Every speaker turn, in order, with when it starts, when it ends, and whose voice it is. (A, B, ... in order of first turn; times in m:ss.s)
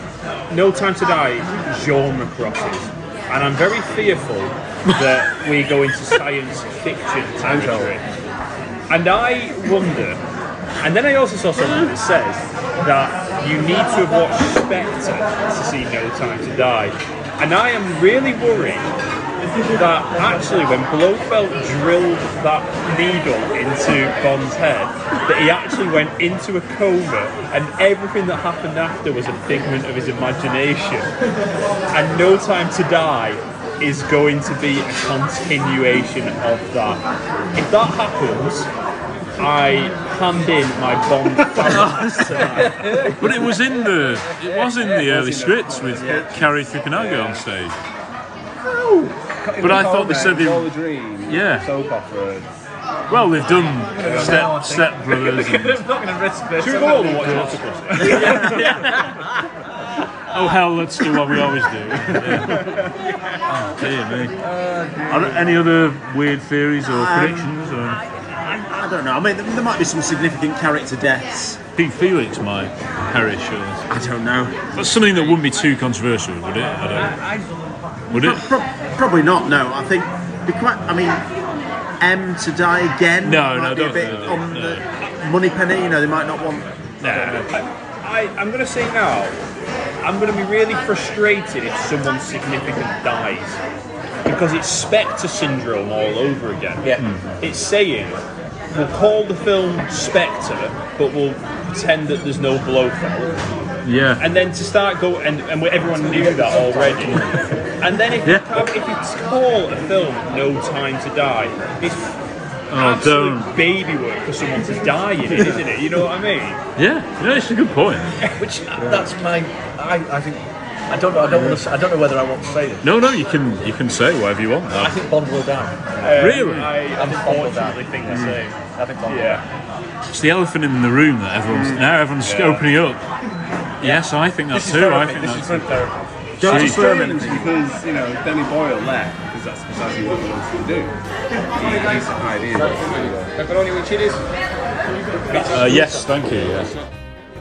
0:00.5-0:08.0 A
0:07.4-0:08.0 B
0:08.9-0:10.2 A
0:10.8-0:18.9 A
0:19.7-0:31.1 A
0:31.9-0:37.0 A
0:37.6-0:38.7 A
0:39.4-0:42.8 A
0:41.6-0:42.6 C
0:42.4-0:44.9 D
0:43.2-0:47.8 C
0:44.9-0:47.4 B
0:46.0-0:46.3 E
0:48.7-0:52.5 B
0:49.4-0:50.4 D
0:49.6-0:51.7 C
0:53.1-0:55.8 C
0:53.9-0:59.1 D
0:54.0-0:54.6 B
0:56.6-0:58.3 A
0:58.0-0:59.1 C
1:00.3-1:02.9 C
1:02.2-1:02.9 D
1:03.5-1:04.4 C
1:04.4-1:05.5 D
1:05.1-1:08.0 C
1:06.9-1:07.5 E
1:08.3-1:11.6 E
1:11.8-1:13.9 C
1:13.9-1:14.8 E
1:14.7-1:17.2 C
1:17.0-1:17.5 D
1:18.1-1:18.5 C
1:18.1-1:21.3 E
1:22.0-1:27.5 E
1:23.2-1:24.8 C
1:27.0-1:29.4 A
1:30.0-1:33.6 A
1:34.3-1:43.5 A
1:37.0-1:37.4 C
1:43.8-1:44.2 C
1:44.2-1:52.2 A
1:46.0-1:47.4 D
1:48.2-1:48.6 C
1:52.7-1:53.6 C
1:52.7-1:56.6 A
1:56.8-1:58.2 C
1:58.4-2:02.9 D
2:02.8-2:05.0 C
2:04.7-2:09.4 D
2:06.0-2:09.4 A
2:06.2-2:06.8 C
2:08.1-2:08.4 C
2:10.1-2:13.0 C
2:11.5-2:11.8 E
2:12.3-2:12.6 A
2:13.8-2:15.8 C
2:14.5-2:16.0 D
2:16.4-2:17.6 E
2:16.4-2:16.8 C
2:16.4-2:21.0 B
2:21.6-2:23.3 B
2:23.4-2:24.2 A
2:23.6-2:23.9 D
2:25.5-2:26.8 C